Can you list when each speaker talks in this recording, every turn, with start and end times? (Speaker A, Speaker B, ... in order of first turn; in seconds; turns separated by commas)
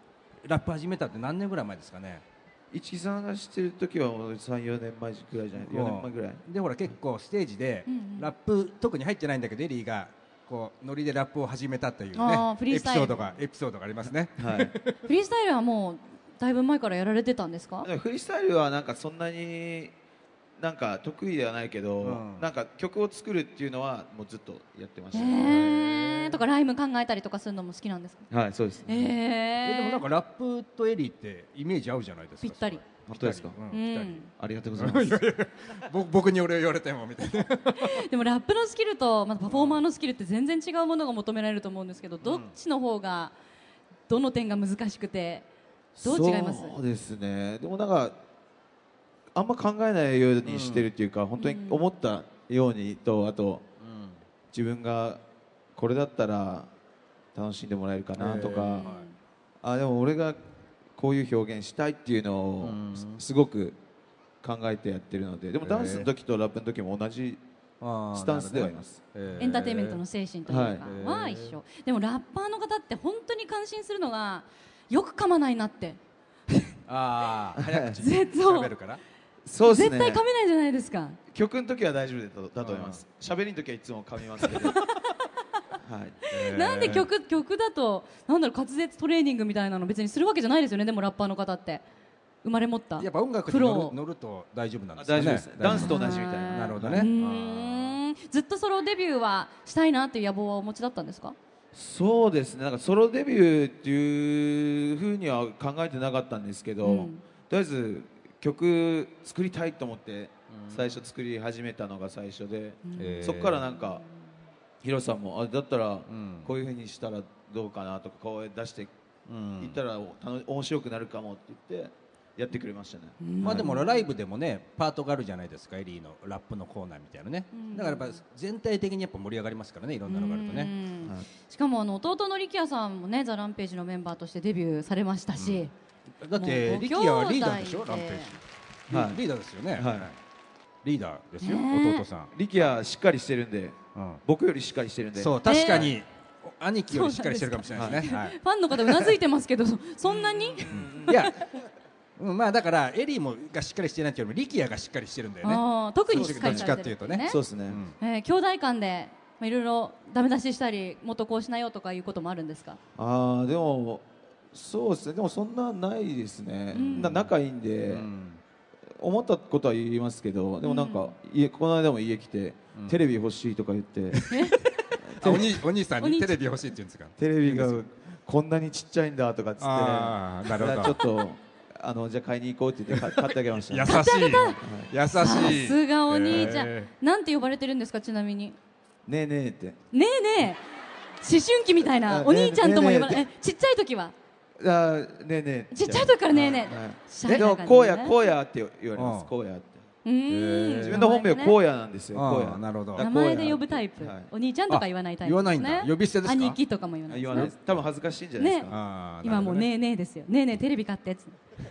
Speaker A: 0.4-2.2, Speaker B: 2.7-6.4, Speaker A: 5.6-15.0, Speaker C: 7.9-8.3, Speaker C: 12.2-13.2, Speaker B: 14.4-14.7, Speaker C: 15.1-17.9, Speaker B: 17.8-19.9, Speaker B: 20.6-25.8, Speaker A: 22.0-22.5, Speaker C: 25.1-28.3, Speaker A: 25.4-26.4, Speaker B: 28.3-29.1, Speaker C: 28.9-30.0, Speaker A: 29.6-34.2, Speaker C: 32.4-32.8, Speaker B: 33.1-33.6, Speaker C: 33.7-34.3, Speaker B: 34.4-35.2, Speaker A: 34.8-38.0, Speaker C: 37.7-43.3, Speaker A: 39.5-39.8, Speaker A: 42.2-42.5, Speaker C: 44.1-45.5, Speaker B: 46.0-48.2, Speaker C: 46.0-46.8, Speaker B: 49.3-53.6, Speaker A: 50.5-50.9, Speaker C: 51.4-51.8, Speaker A: 53.8-54.2, Speaker B: 54.5-55.2, Speaker B: 55.8-56.7, Speaker B: 57.3-58.9, Speaker A: 58.2-59.1, Speaker C: 58.8-59.1, Speaker B: 59.6-60.4, Speaker B: 61.0-63.8, Speaker A: 62.6-63.2, Speaker B: 64.4-67.4, Speaker A: 65.6-66.1, Speaker A: 67.8-70.0, Speaker B: 68.1-69.0, Speaker C: 69.4-76.0, Speaker B: 70.5-70.9, Speaker A: 70.8-71.6, Speaker A: 76.9-79.0, Speaker B: 77.6-78.0, Speaker C: 78.0-78.7, Speaker B: 79.5-80.2, Speaker C: 79.7-81.2, Speaker B: 81.3-84.8, Speaker A: 82.6-83.0, Speaker B: 85.8-86.2, Speaker C: 86.2-91.8, Speaker A: 86.3-87.1, Speaker C: 92.4-94.0, Speaker A: 93.0-98.0, Speaker B: 95.0-97.1, Speaker C: 95.7-101.4, Speaker B: 101.7-114.0, Speaker C: 106.8-107.2, Speaker A: 110.5-111.0, Speaker C: 112.9-113.4, Speaker A: 113.0-113.6, Speaker B: 114.8-118.9, Speaker A: 116.1-116.5, Speaker A: 119.3-119.8, Speaker B: 119.6-123.7, Speaker C: 123.2-124.1, Speaker A: 123.4-130.7, Speaker C: 127.5-128.2, Speaker C: 130.1-135.7, Speaker A: 135.4-135.7, Speaker A: 136.2-140.2, Speaker C: 136.4-138.4, Speaker B: 138.9-139.2, Speaker B: 139.8-140.1, Speaker A: 140.8-142.3, Speaker C: 141.4-142.1, Speaker B: 142.3-145.9, Speaker A: 143.9-144.2, Speaker A: 145.2-148.4, Speaker C: 145.4-145.9, Speaker C: 146.9-151.1, Speaker B: 147.7-148.1, Speaker B: 150.1-151.5, Speaker A: 150.7-151.4, Speaker A: 152.2-157.9, Speaker C: 155.4-157.4, Speaker B: 156.1-157.8, Speaker C: 158.0-162.8, Speaker B: 163.0-168.1, Speaker C: 166.7-167.2, Speaker A: 166.7-167.3, Speaker A: 167.9-168.4, Speaker B: 168.9-174.3, Speaker C: 170.6-171.1, Speaker A: 174.1-177.8, Speaker C: 174.3-174.7, Speaker B: 175.0-175.6, Speaker C: 176.0-176.4, Speaker B: 177.2-184.9, Speaker A: 179.6-181.0, Speaker A: 182.9-186.9, Speaker C: 183.9-184.6, Speaker C: 185.2-188.6, Speaker B: 189.1-189.8, Speaker C: 189.9-190.6, Speaker C: 191.2-194.1, Speaker B: 192.0-193.3, Speaker B: 194.6-199.8, Speaker C: 195.7-198.1, Speaker A: 199.0-199.3, Speaker C: 200.1-201.6, Speaker A: 200.3-201.1, Speaker B: 200.8-204.3, Speaker A: 202.1-203.1, Speaker C: 203.0-207.5, Speaker A: 204.7-206.6, Speaker B: 207.1-209.5, Speaker A: 207.4-207.7, Speaker C: 208.4-208.7, Speaker A: 208.7-209.7, Speaker C: 209.2-211.4